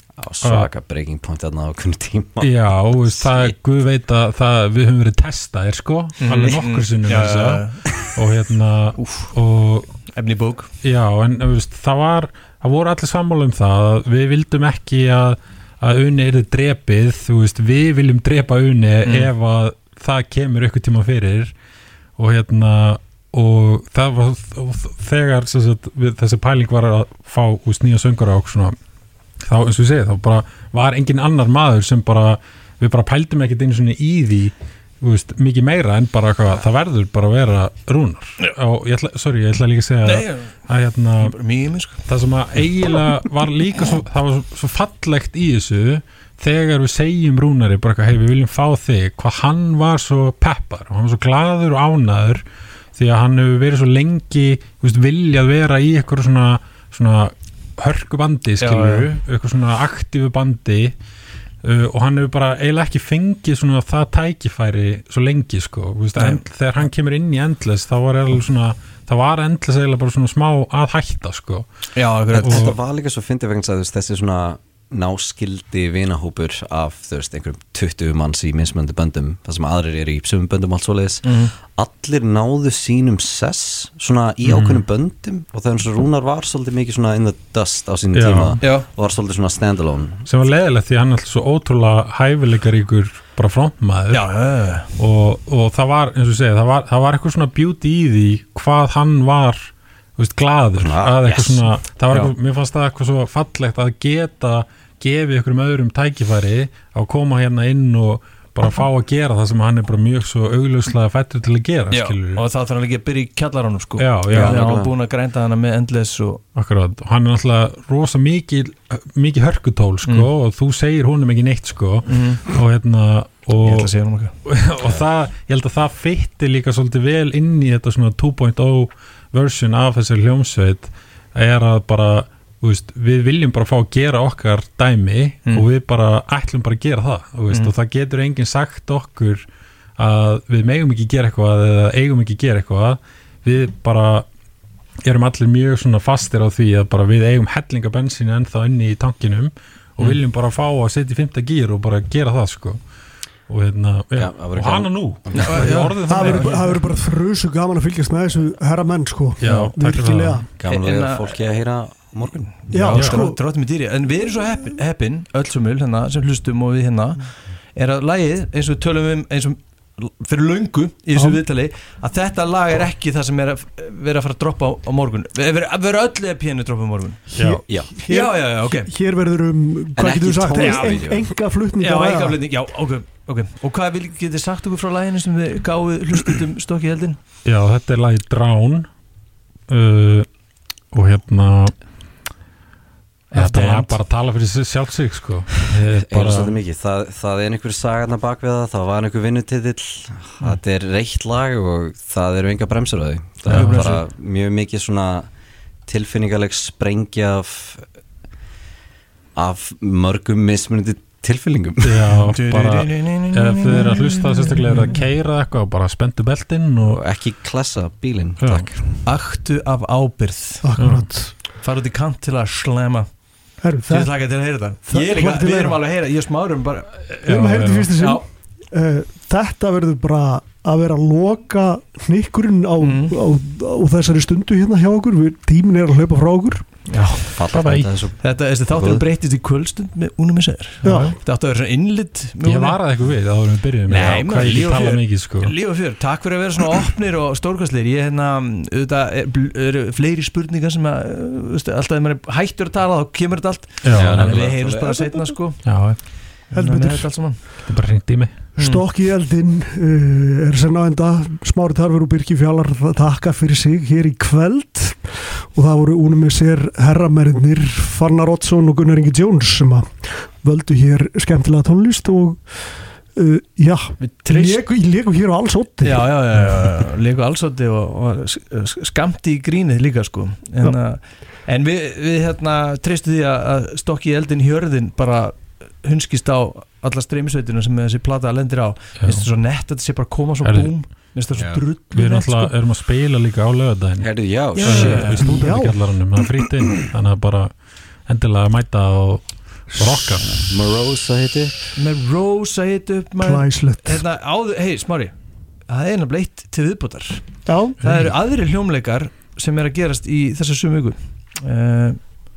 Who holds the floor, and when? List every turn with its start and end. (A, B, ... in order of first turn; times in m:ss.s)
0:00.2-0:03.5 A
0:00.4-0:00.7 B
0:02.4-0:09.9 B
0:06.2-0:08.1 C
0:09.0-0:09.3 C
0:10.1-0:10.7 C
0:10.8-0:21.5 B
0:19.0-0:19.3 C
0:22.2-0:28.8 B
0:29.4-0:41.4 B
0:40.0-0:40.6 C
0:41.2-0:42.1 C
0:42.1-0:52.4 B
0:53.0-1:00.9 B
0:58.6-0:59.1 C
1:01.6-1:11.7 B
1:06.2-1:06.4 C
1:11.9-1:12.7 C
1:12.3-1:12.8 B
1:12.4-1:30.3 A
1:21.2-1:21.5 C
1:24.4-1:24.8 B
1:28.1-1:28.6 B
1:28.6-1:28.9 C
1:30.3-1:34.2 B
1:34.1-1:35.0 C
1:35.0-1:52.4 B
1:40.8-1:41.6 A
1:51.9-1:56.4 C
1:54.0-1:54.8 B
1:54.3-1:54.9 A
1:56.6-2:03.9 B
2:02.1-2:02.5 C
2:03.6-2:04.3 C
2:04.4-2:19.4 B
2:20.0-2:24.3 B
2:25.0-2:32.8 B
2:33.5-2:36.8 B
2:34.2-2:35.8 A
2:35.4-2:36.8 C
2:36.1-2:40.5 D
2:39.4-2:40.5 B
2:40.6-2:42.6 A
2:40.6-2:41.4 C
2:42.6-2:57.2 C
2:42.7-2:43.4 D
2:42.9-2:43.2 B
2:51.2-2:51.4 D
2:57.3-3:02.4 D
2:57.3-2:57.6 B
2:58.0-2:58.9 C
3:00.0-3:01.2 A
3:00.5-3:01.0 C
3:01.8-3:07.2 C
3:07.4-3:08.9 B
3:09.7-3:10.3 B
3:10.9-3:11.7 B
3:13.3-3:14.0 C
3:13.3-3:16.6 B
3:16.0-3:25.3 A
3:23.5-3:24.0 C
3:23.5-3:24.0 B
3:25.9-3:27.9 A
3:29.4-3:32.2 A
3:31.8-3:37.0 B
3:32.3-3:35.0 C
3:36.9-3:39.0 A
3:38.4-3:38.7 B
3:39.0-3:40.7 C
3:40.6-3:41.4 D
3:40.8-3:41.1 B
3:41.5-3:43.1 C
3:43.6-3:45.8 D
3:43.8-3:47.2 C
3:47.1-3:47.9 B
3:47.2-3:56.7 D
3:48.0-3:48.2 C
3:52.8-3:53.2 C
3:56.9-3:57.4 C
3:57.2-3:59.0 A
3:57.5-3:58.0 B
3:58.2-4:02.8 C
4:00.8-4:01.2 D
4:00.8-4:01.2 B
4:02.4-4:05.5 B
4:03.9-4:17.6 C
4:13.8-4:14.5 B
4:13.9-4:15.1 A
4:15.6-4:16.1 B
4:16.5-4:17.1 D
4:17.6-4:18.3 B
4:18.6-4:36.1 D
4:18.6-4:18.8 C
4:34.0-4:34.6 C
4:35.8-4:52.5 C
4:49.0-4:49.3 B
4:50.4-4:50.7 B
4:51.4-4:51.6 A
4:51.9-4:57.5 B
4:54.0-4:55.3 A
4:54.6-4:55.8 D
4:54.6-4:55.4 C
4:58.1-5:00.3 B
5:00.2-5:01.7 A
5:01.8-5:05.1 C
5:03.2-5:04.0 D
5:05.7-5:12.0 C
5:07.5-5:07.8 D
5:07.8-5:08.1 B